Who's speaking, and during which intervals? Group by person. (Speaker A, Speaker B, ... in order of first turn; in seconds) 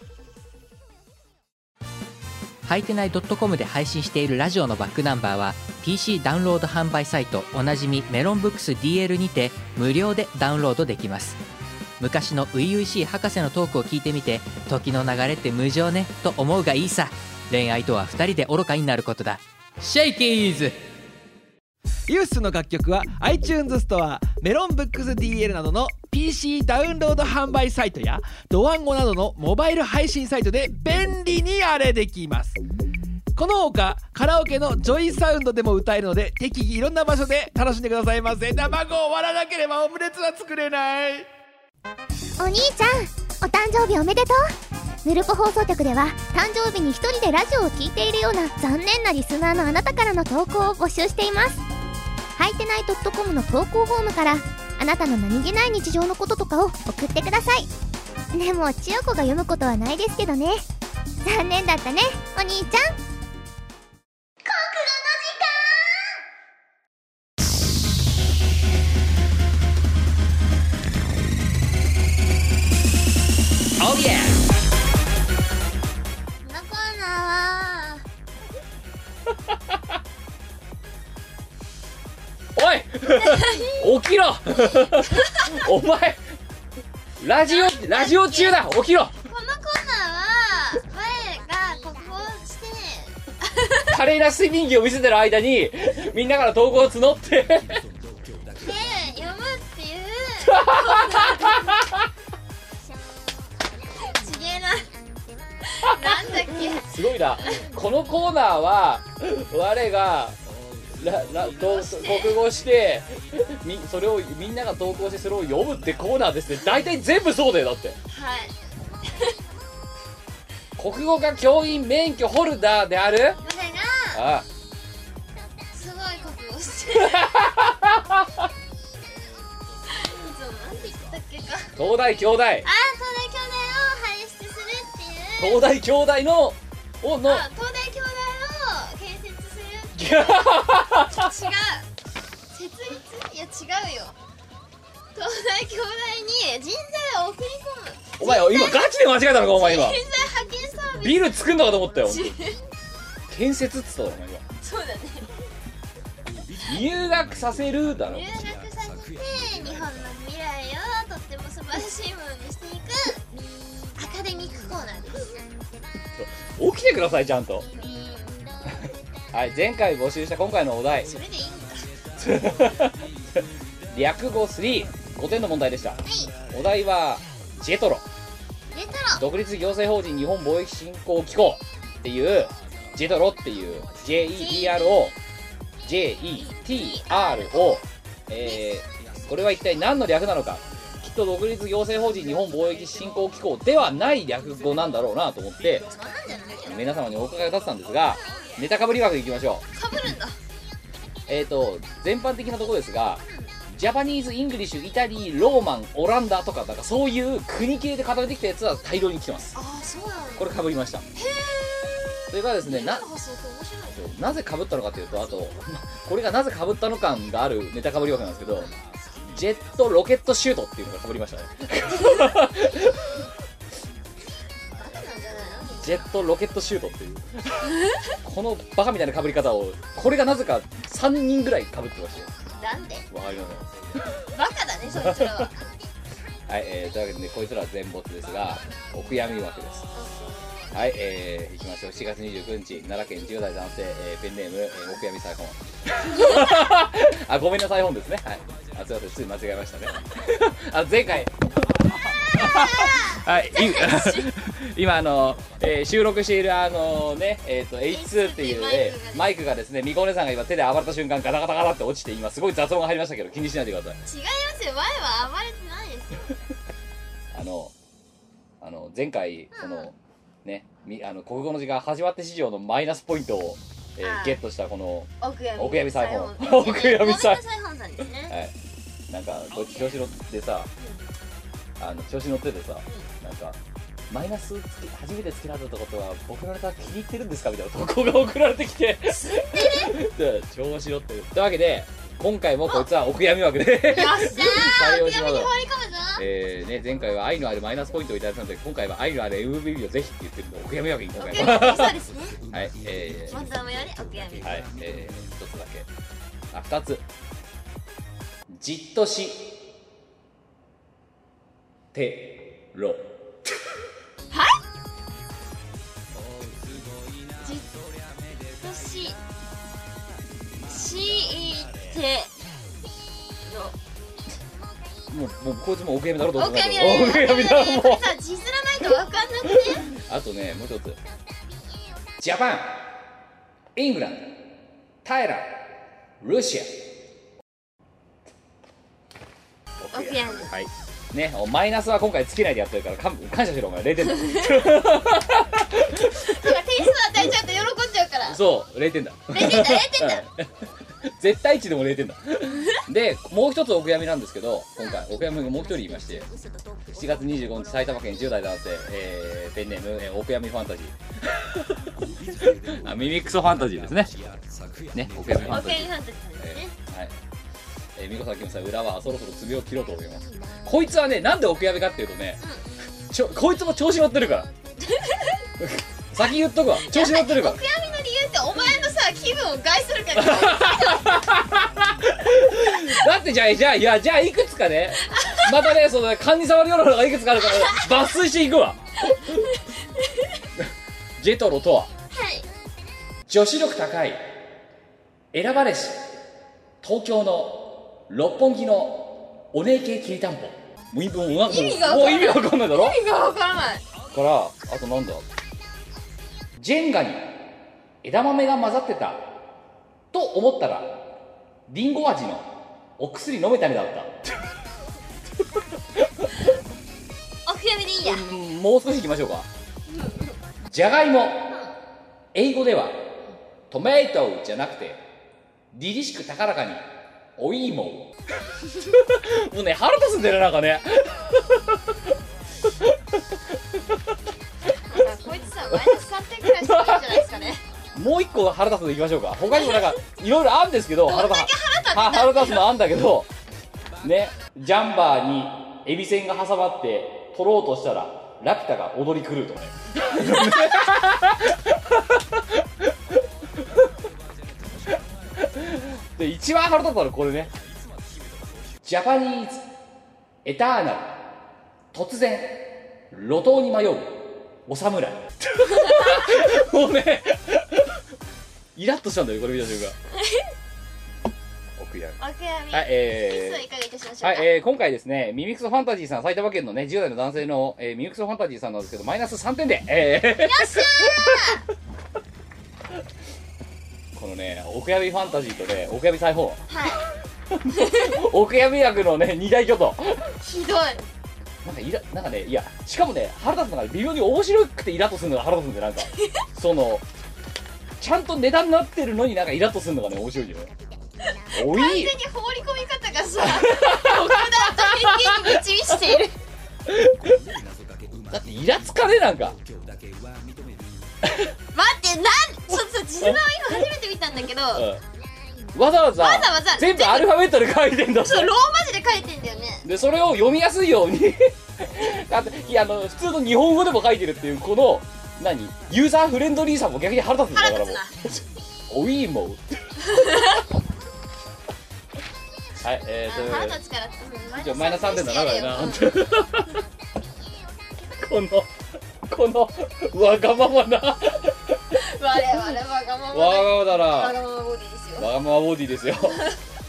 Speaker A: 2.6-11.4, 12.0-20.8
Speaker B: 22.1-32.6, 33.4-41.3
Speaker C: 42.4-51.6, 52.4-57.7, 58.3-60.6, 61.2-63.0, 64.5-65.4
Speaker D: 73.8-74.4, 79.5-79.8, 82.5-86.2, 87.2-89.1, 93.9-97.8, 100.4-101.7, 105.8-110.4, 111.0-118.0, 120.8-123.4, 124.1-124.5, 127.0-128.4, 131.8-132.7, 135.4-137.4, 139.9-141.3, 148.2-150.0, 151.0-152.4, 153.3-154.4, 156.6-158.3, 166.2-167.7, 169.3-171.1, 172.2-178.0, 179.1-185.1, 185.8-195.9, 196.6-199.6, 201.3-209.6, 210.4-211.0, 212.3-213.0, 213.9-218.7, 219.3-223.1, 225.8-227.7, 228.2-232.3, 233.1-233.7, 236.5-239.9, 240.7-264.0, 267.3-267.7, 268.6-277.4, 279.1-280.7, 281.8-283.6, 284.1-295.5, 296.2-302.0, 302.5-303.4, 304.4-305.9, 306.5-307.0, 308.5-309.6, 311.9-313.1, 325.1-328.1, 329.9-331.0, 332.2-332.9, 333.8-334.4, 335.0-335.6, 336.2-336.9, 339.8-346.5, 348.3-350.4, 351.0-356.3, 356.9-367.1, 367.9-372.4, 373.1-374.5, 375.6-377.6, 380.2-389.4, 391.2-391.9, 393.3-394.2, 395.3-396.1, 396.8-403.0, 404.1-405.2, 406.6-407.4, 408.0-409.2, 410.1-411.1, 411.7-414.3, 416.0-416.3, 418.0-419.5, 420.6-421.5, 422.3-423.1, 423.7-425.0, 425.7-426.8, 427.4-428.1, 428.9-431.8, 436.6-437.0, 437.9-443.3, 444.0-452.6, 455.4-457.5, 458.8-459.6, 460.4-461.3, 461.9-468.0, 468.8-469.9, 471.8-472.2, 472.7-473.6, 474.2-481.6, 484.1-486.7, 487.5-490.3, 491.6-497.0, 498.0-500.7, 501.5-502.1, 503.4-505.3, 506.9-507.4, 508.2-509.6, 514.7-515.0, 515.7-518.5, 519.8-530.0, 532.8-533.8, 534.6-536.8, 538.2-538.7, 539.2-541.8, 543.3-544.4, 545.2-546.5
Speaker E: 76.4-78.0, 83.1-83.9, 84.7-85.3, 87.5-88.6, 89.2-93.8, 98.6-101.7, 103.9-104.9, 105.7-106.9, 111.6-112.4, 118.1-118.5, 119.0-119.3, 123.4-124.2, 125.7-127.2, 129.9-131.8, 132.6-135.6, 137.2-140.5, 141.1-141.9, 142.5-144.2, 145.1-151.3, 152.1-152.6, 154.6-155.3, 158.1-163.2, 163.9-165.4, 167.7-168.4, 171.0-171.9, 176.1-176.3, 178.7-179.2, 184.3-185.1, 186.4-187.8, 195.8-196.9, 198.0-198.6, 199.7-200.4, 203.2-203.5, 209.5-210.5, 211.1-214.1, 224.8-226.0, 232.6-233.1, 234.3-235.5, 239.9-240.7, 252.3-254.3, 257.9-259.3, 264.1-266.3, 269.5-269.9, 274.0-274.4, 275.2-278.3, 289.1-289.9, 293.9-296.2, 301.2-302.4, 303.3-304.6, 314.3-314.6, 317.4-317.7, 318.6-319.2, 320.6-322.3, 323.4-323.7, 326.3-329.9, 339.9-340.5, 344.2-344.6, 346.2-348.4, 349.3-350.2, 354.8-355.1, 365.5-366.7, 374.8-375.4, 376.7-381.2, 385.1-385.6, 387.4-387.9, 392.1-392.5, 401.4-403.8, 417.4-418.2, 419.9-420.3, 434.9-437.6, 439.5-439.9, 441.1-442.7, 470.1-470.4, 472.2-474.5, 480.4-481.6, 486.7-487.0, 487.7-488.1, 490.4-491.0, 501.3-506.4, 511.7-514.9, 516.1-517.5, 518.2-519.9, 527.5-528.1, 530.1-530.5, 533.3-536.1, 542.0-545.3